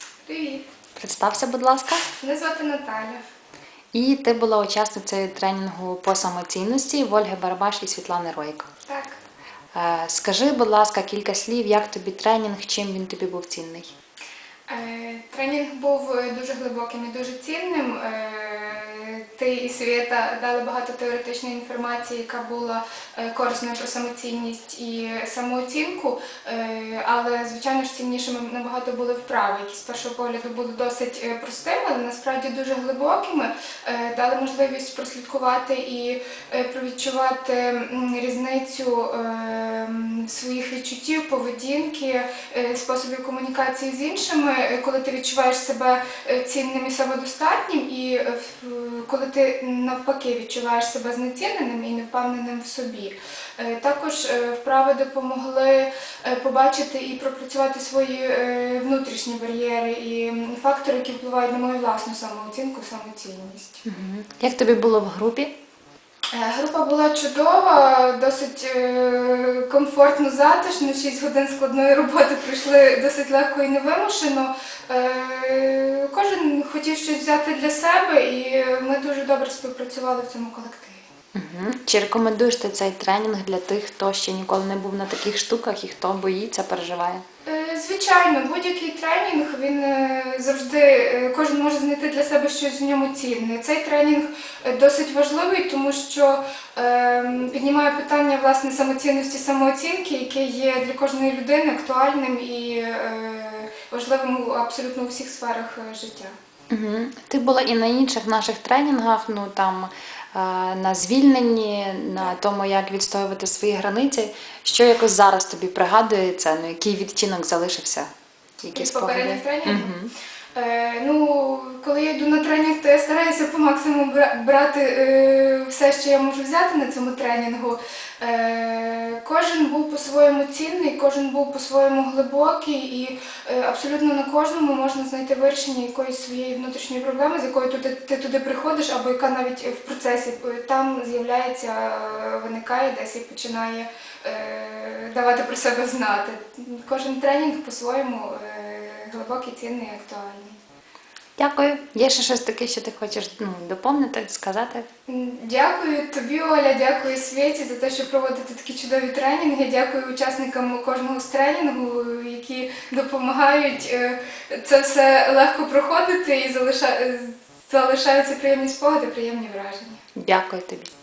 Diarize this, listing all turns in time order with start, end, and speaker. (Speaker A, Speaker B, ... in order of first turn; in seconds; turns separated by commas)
Speaker A: 0.3-0.7, Speaker B: 0.9-2.0, Speaker A: 2.2-3.2, Speaker B: 3.9-8.7, Speaker A: 8.9-9.2, Speaker B: 9.7-13.9, Speaker A: 14.7-63.8, Speaker B: 63.9-65.5, Speaker A: 66.3-81.0, Speaker B: 81.3-87.2, Speaker A: 87.5-106.3, Speaker B: 106.7-118.1, Speaker B: 118.6-120.1, Speaker A: 118.7-119.9, Speaker A: 120.6-150.6, Speaker B: 151.4-154.9, Speaker A: 155.1-170.0, Speaker B: 170.2-170.9